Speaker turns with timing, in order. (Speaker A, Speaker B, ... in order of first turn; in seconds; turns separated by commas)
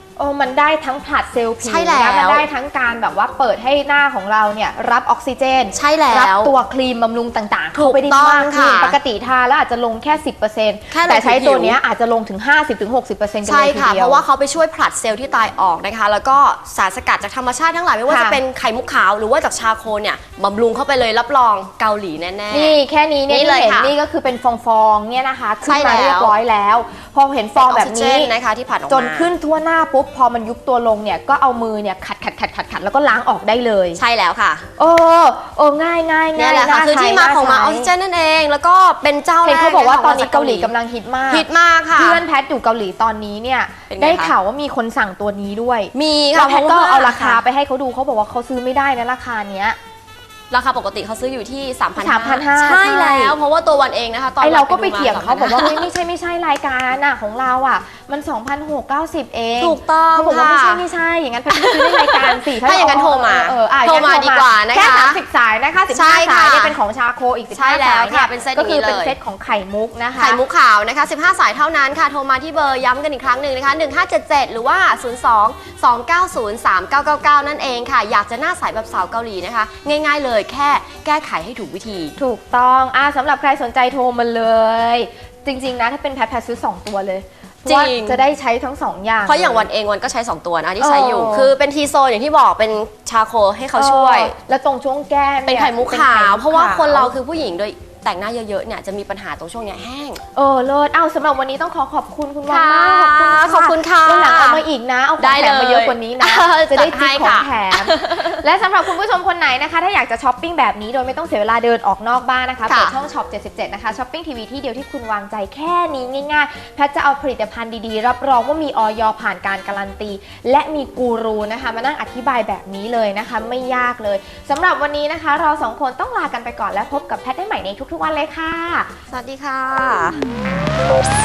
Speaker A: 0.2-14.2, Speaker B: 1.6-2.5, Speaker B: 5.7-6.5, Speaker B: 7.7-9.0, Speaker B: 10.9-11.8, Speaker B: 13.4-23.9, Speaker A: 18.1-18.4, Speaker A: 22.5-28.3, Speaker B: 25.6-26.4, Speaker B: 27.6-29.3, Speaker A: 28.9-34.0, Speaker B: 34.0-34.6, Speaker A: 34.8-37.9, Speaker B: 36.4-40.7, Speaker A: 39.4-49.8, Speaker B: 41.3-42.2, Speaker B: 43.9-44.3, Speaker B: 45.9-47.4, Speaker B: 50.5-55.9, Speaker A: 52.0-53.4, Speaker A: 54.4-70.4, Speaker B: 59.6-60.9, Speaker B: 61.5-65.2, Speaker B: 65.9-66.8, Speaker B: 67.5-69.2, Speaker B: 70.2-82.2, Speaker A: 82.2-89.7, Speaker B: 87.7-88.2, Speaker B: 89.2-94.3, Speaker A: 90.8-91.5, Speaker A: 93.8-97.2, Speaker B: 95.5-100.2, Speaker A: 100.3-128.9, Speaker B: 102.5-104.7, Speaker B: 105.2-108.4, Speaker B: 112.7-113.0, Speaker B: 129.1-130.2